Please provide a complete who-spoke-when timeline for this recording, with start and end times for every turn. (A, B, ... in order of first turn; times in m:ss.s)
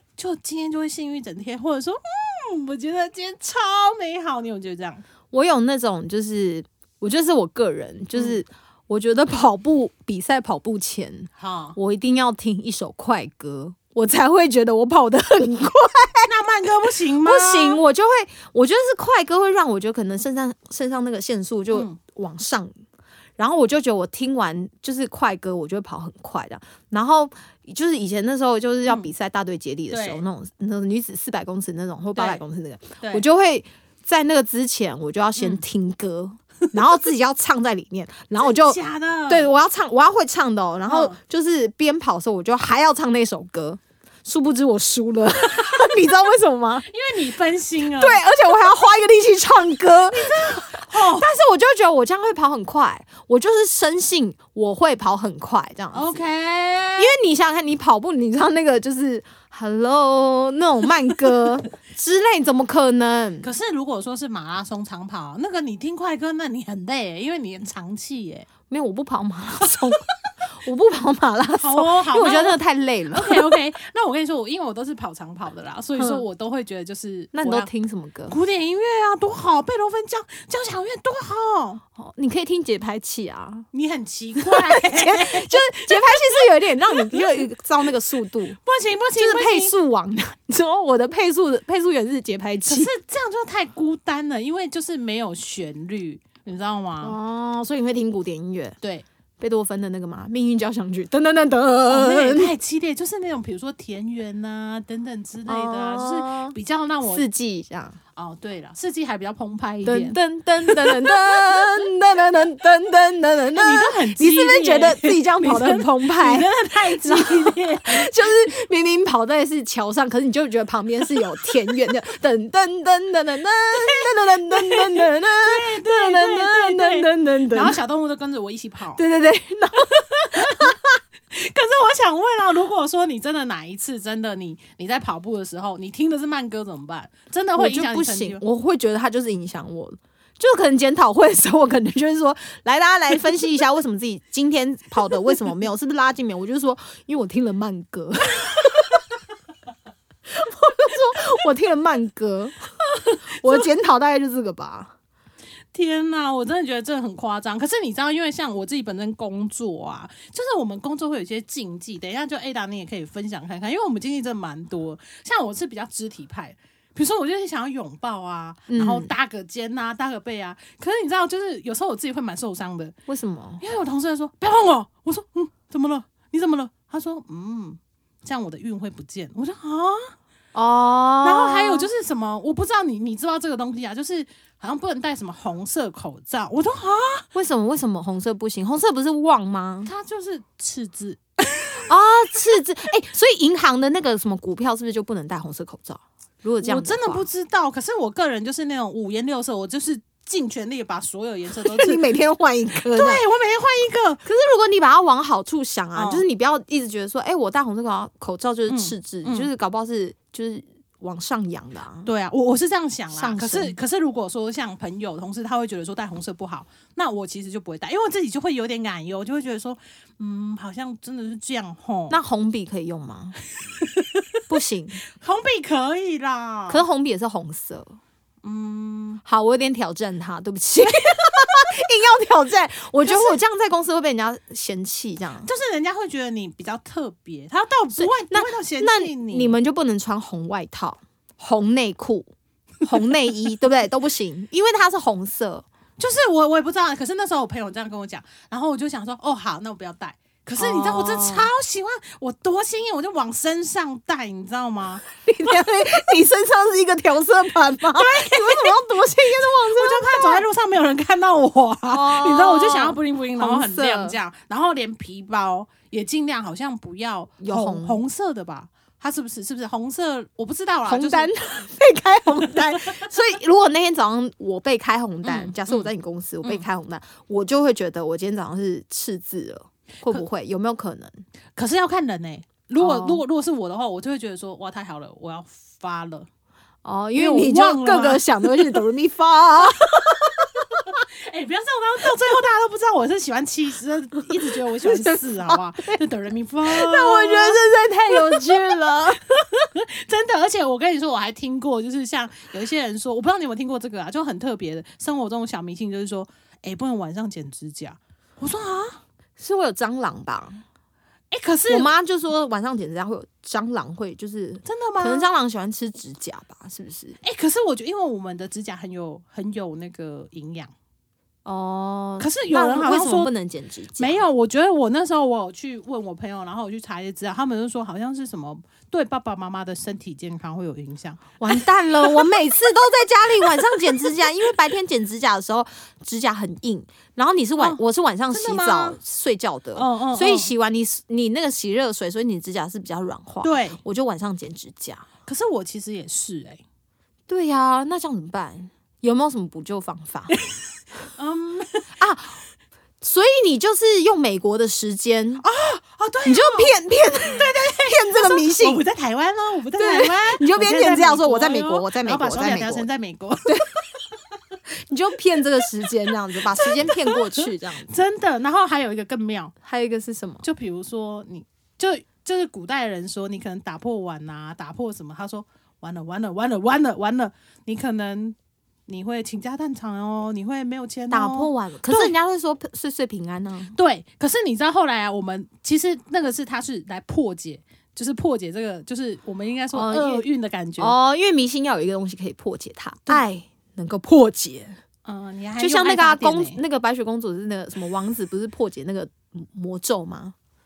0:00.2-0:05.0 A
0:05.3-0:16.3 B
0:08.1-0:08.4 A
0:11.4-0:11.8 A
0:16.2-0:17.8 A
0:17.2-0:22.7 B
0:21.7-0:22.0 A
0:23.4-0:46.9 B
0:28.8-0:29.1 A
0:29.9-0:30.2 A
0:32.2-0:32.4 A
0:35.4-0:35.6 A
0:38.4-0:39.5 A
0:40.9-0:41.2 A
0:46.9-0:48.2 A
0:47.9-0:56.2 B
0:50.1-0:51.3 A
0:55.9-0:57.1 A
0:57.0-1:03.5 B
1:03.4-1:08.5 A
1:08.7-1:13.5 B
1:11.6-1:12.6 A
1:13.1-1:17.7 A
1:16.0-1:16.2 B
1:17.3-1:18.4 B
1:18.3-1:21.8 A
1:22.0-1:23.7 B
1:23.7-1:27.5 A
1:24.4-1:28.6 B
1:28.6-1:29.7 A
1:29.2-1:32.9 B
1:32.6-1:37.2 A
1:37.0-1:38.8 B
1:38.8-1:39.0 A
1:39.4-1:42.5 B
1:41.9-1:47.2 A
1:45.5-1:48.0 B
1:48.2-1:51.8 A
1:49.8-2:07.8 B
1:53.5-1:58.5 A
2:03.8-2:09.0 A
2:08.9-2:10.9 B
2:10.3-2:10.7 A
2:11.3-2:18.4 A
2:17.6-2:29.0 B
2:30.3-2:32.6 B
2:33.2-2:34.9 B
2:35.7-2:52.9 A
2:48.7-2:49.1 B
2:53.1-2:53.6 B
2:53.6-3:00.1 A
3:00.5-3:01.9 B
3:01.2-3:07.3 A
3:07.3-3:09.9 B
3:09.8-3:11.8 A
3:11.8-3:17.3 B
3:16.6-3:22.1 A
3:21.6-3:23.2 B
3:22.9-3:24.2 A
3:24.2-3:32.1 B
3:25.9-3:26.2 A
3:28.7-3:29.5 A
3:32.0-3:42.2 A
3:33.1-3:33.8 B
3:42.1-3:43.4 B
3:43.8-3:44.4 A
3:44.5-3:45.0 B
3:45.1-3:46.8 A
3:46.7-3:48.0 B
3:48.4-3:49.2 A
3:49.2-3:55.5 B
3:53.0-3:53.4 A
3:55.4-3:59.6 A
3:58.0-4:02.3 B
4:02.8-4:05.6 B
4:06.0-4:15.0 A
4:10.6-4:11.5 B
4:15.2-4:20.4 B
4:17.9-4:31.3 A
4:21.9-4:24.2 B
4:27.4-4:28.0 B
4:30.8-4:41.2 B
4:32.5-4:33.1 A
4:35.2-4:35.9 A
4:41.6-4:46.3 A
4:42.8-4:43.2 B
4:46.8-4:50.8 B
4:47.2-4:48.8 A
4:51.0-5:09.0 A
4:54.5-4:56.0 B
4:56.6-4:59.2 B
5:09.4-5:10.6 B
5:11.3-5:11.9 A
5:11.7-5:17.2 B
5:14.6-5:15.3 A
5:17.2-5:20.7 A
5:21.4-5:24.2 B
5:22.2-5:23.3 A
5:24.0-5:32.2 A
5:31.4-5:45.1 B
5:33.4-5:34.1 A
5:37.6-5:39.0 A
5:39.7-5:40.5 A
5:43.4-5:43.8 A
5:45.2-5:46.6 A
5:47.3-5:50.4 B
5:51.2-5:51.9 A
5:52.0-5:52.4 B
5:53.0-5:55.4 B
5:55.4-5:56.7 A
5:56.2-5:58.8 B
5:57.2-6:03.8 A
5:59.8-6:02.9 B
6:03.4-6:03.7 B
6:04.9-6:07.9 B
6:06.6-6:09.5 A
6:09.6-6:10.4 B
6:10.4-6:18.4 A
6:18.9-6:22.1 A
6:21.1-6:23.7 B
6:23.7-6:31.0 A
6:29.7-6:30.2 B
6:30.8-6:34.8 B
6:35.0-6:36.6 A
6:35.6-6:40.3 B